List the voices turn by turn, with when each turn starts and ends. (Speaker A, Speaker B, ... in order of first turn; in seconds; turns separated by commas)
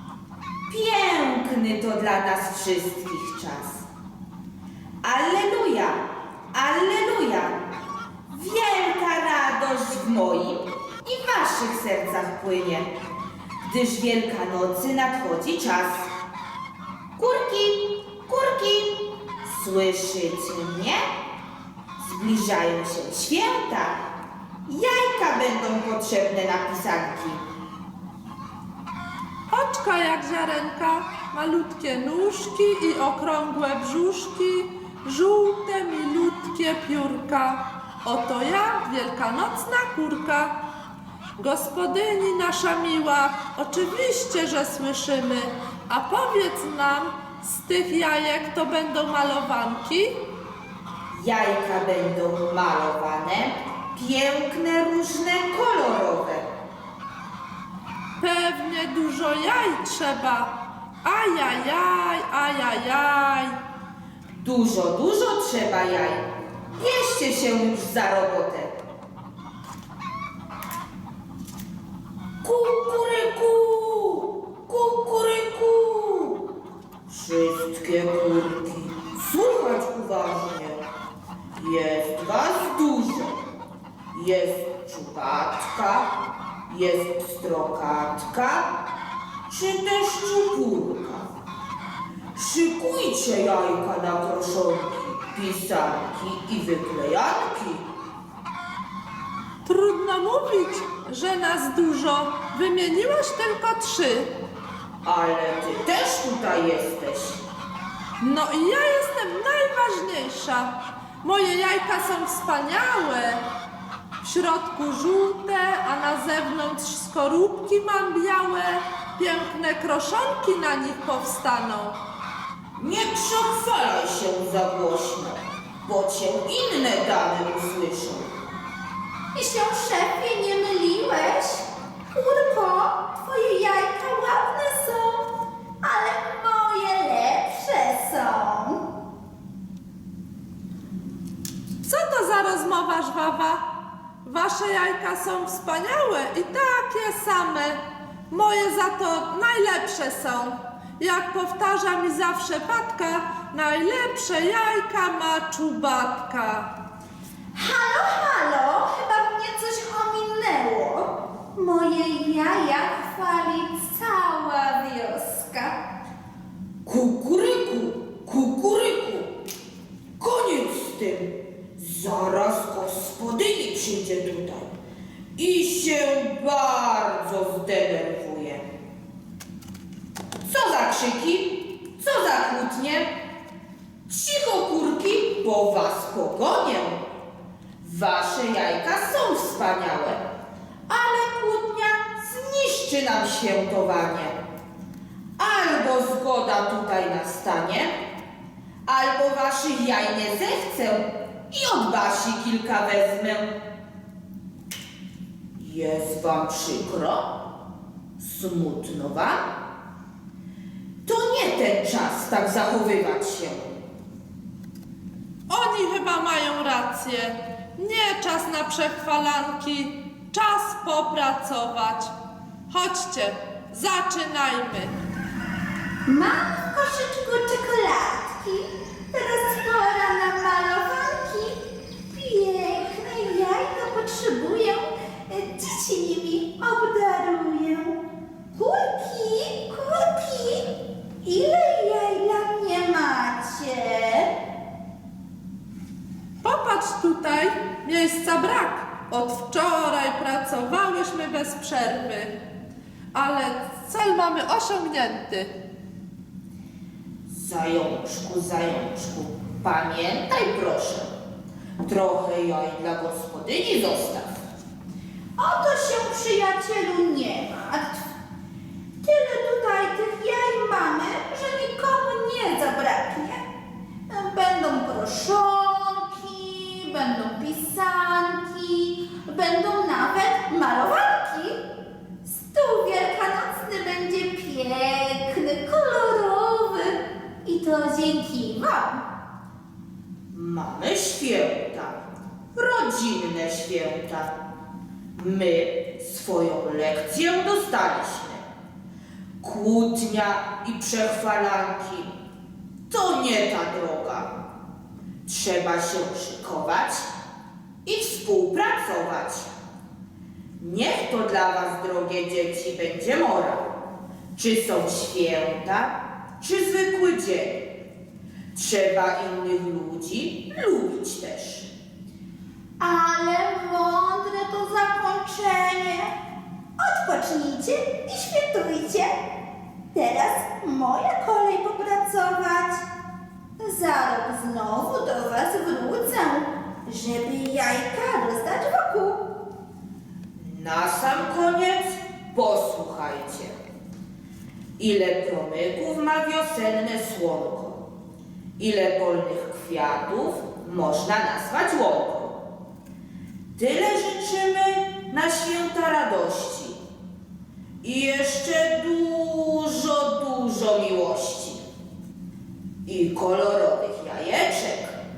Speaker A: 0.7-3.9, Speaker A: 5.0-7.6, Speaker A: 8.3-12.9, Speaker A: 13.6-16.1, Speaker A: 17.2-21.0, Speaker A: 22.0-24.0, Speaker A: 24.6-27.4, Speaker B: 29.5-40.5, Speaker B: 41.4-50.2, Speaker A: 51.1-56.5, Speaker B: 58.2-60.5, Speaker B: 61.0-63.5, Speaker A: 64.4-66.2, Speaker A: 66.8-68.8, Speaker A: 72.4-76.5, Speaker A: 77.1-80.8, Speaker A: 81.5-83.4, Speaker A: 84.1-86.1, Speaker A: 86.7-88.7, Speaker A: 89.5-91.3, Speaker A: 92.3-97.9, Speaker B: 99.6-104.3, Speaker A: 105.0-107.4, Speaker B: 108.2-113.4, Speaker B: 114.2-122.0, Speaker A: 122.8-128.3, Speaker C: 129.3-138.8, Speaker B: 141.8-143.6, Speaker B: 144.2-156.7, Speaker C: 157.5-165.8, Speaker A: 166.8-169.3, Speaker A: 170.2-174.7, Speaker A: 175.3-178.6, Speaker A: 180.4-183.1, Speaker A: 184.1-187.0, Speaker A: 187.8-190.2, Speaker A: 190.9-194.4, Speaker A: 195.4-197.9, Speaker A: 198.8-203.5, Speaker A: 205.6-207.3, Speaker A: 208.2-209.5, Speaker A: 211.0-213.8, Speaker B: 215.5-222.1, Speaker B: 222.7-225.0, Speaker C: 226.0-238.0, Speaker C: 238.5-244.3, Speaker B: 246.4-252.4, Speaker B: 253.1-255.5, Speaker A: 257.3-261.1, Speaker A: 261.8-264.4, Speaker C: 265.4-268.1, Speaker C: 269.0-273.4, Speaker C: 274.1-281.6, Speaker C: 282.2-289.0, Speaker A: 290.3-292.0, Speaker A: 292.5-294.4, Speaker A: 295.1-298.4, Speaker A: 299.4-302.2, Speaker A: 302.9-304.3, Speaker A: 305.2-307.1, Speaker A: 307.8-309.5, Speaker A: 310.6-313.7, Speaker A: 314.3-317.7, Speaker A: 318.5-321.7, Speaker C: 322.8-326.1, Speaker C: 326.8-329.1, Speaker C: 329.9-332.8, Speaker C: 333.6-339.3, Speaker A: 340.4-343.6, Speaker A: 344.8-347.8, Speaker A: 348.6-352.4, Speaker A: 353.5-356.8, Speaker A: 357.8-361.6, Speaker A: 362.9-365.0